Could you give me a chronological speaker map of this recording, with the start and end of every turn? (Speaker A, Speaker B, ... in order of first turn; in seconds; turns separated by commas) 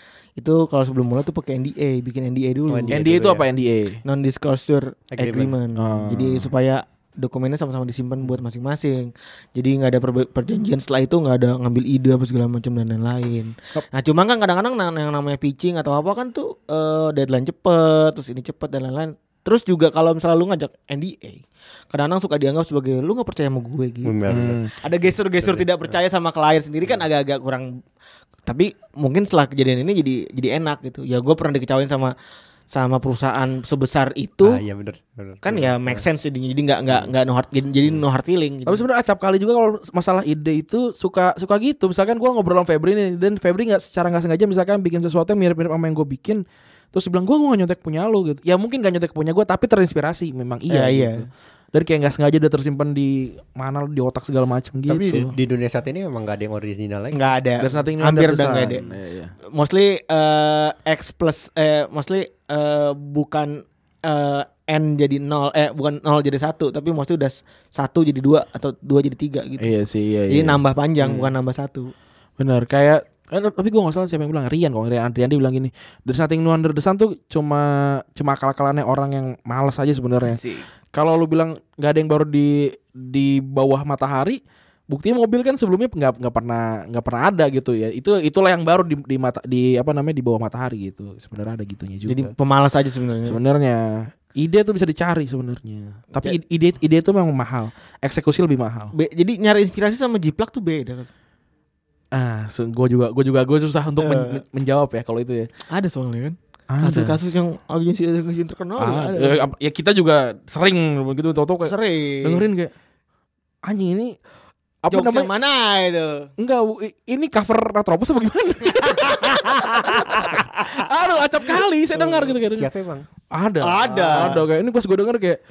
Speaker A: 0.4-3.0, Speaker B: 2.7-3.5, Speaker C: 2.9-4.0, Speaker A: 4.0-24.1, Speaker B: 5.1-5.5, Speaker C: 5.8-6.5, Speaker B: 24.0-24.6, Speaker C: 24.3-24.7, Speaker A: 24.8-27.7, Speaker B: 25.4-26.0, Speaker A: 28.5-32.1, Speaker A: 32.7-34.6, Speaker B: 34.4-36.0, Speaker A: 35.4-38.8, Speaker C: 38.7-46.4, Speaker C: 46.9-55.3, Speaker A: 50.7-51.3, Speaker B: 54.9-57.2, Speaker A: 57.1-58.8, Speaker C: 57.6-59.3, Speaker A: 59.5-69.7, Speaker C: 69.6-71.3, Speaker A: 70.3-71.9, Speaker C: 72.4-80.4, Speaker A: 80.3-80.7, Speaker C: 80.9-92.3, Speaker A: 92.1-93.4, Speaker C: 93.3-98.9, Speaker A: 98.9-101.1, Speaker C: 102.1-105.5, Speaker A: 104.0-104.4, Speaker A: 105.7-109.5, Speaker C: 106.7-107.2, Speaker C: 108.8-112.7, Speaker A: 111.6-112.5, Speaker C: 113.7-114.2, Speaker C: 114.8-115.3, Speaker A: 114.9-116.3, Speaker C: 116.4-122.7, Speaker A: 118.8-120.9, Speaker B: 122.0-123.1, Speaker C: 123.3-125.4, Speaker A: 123.6-124.5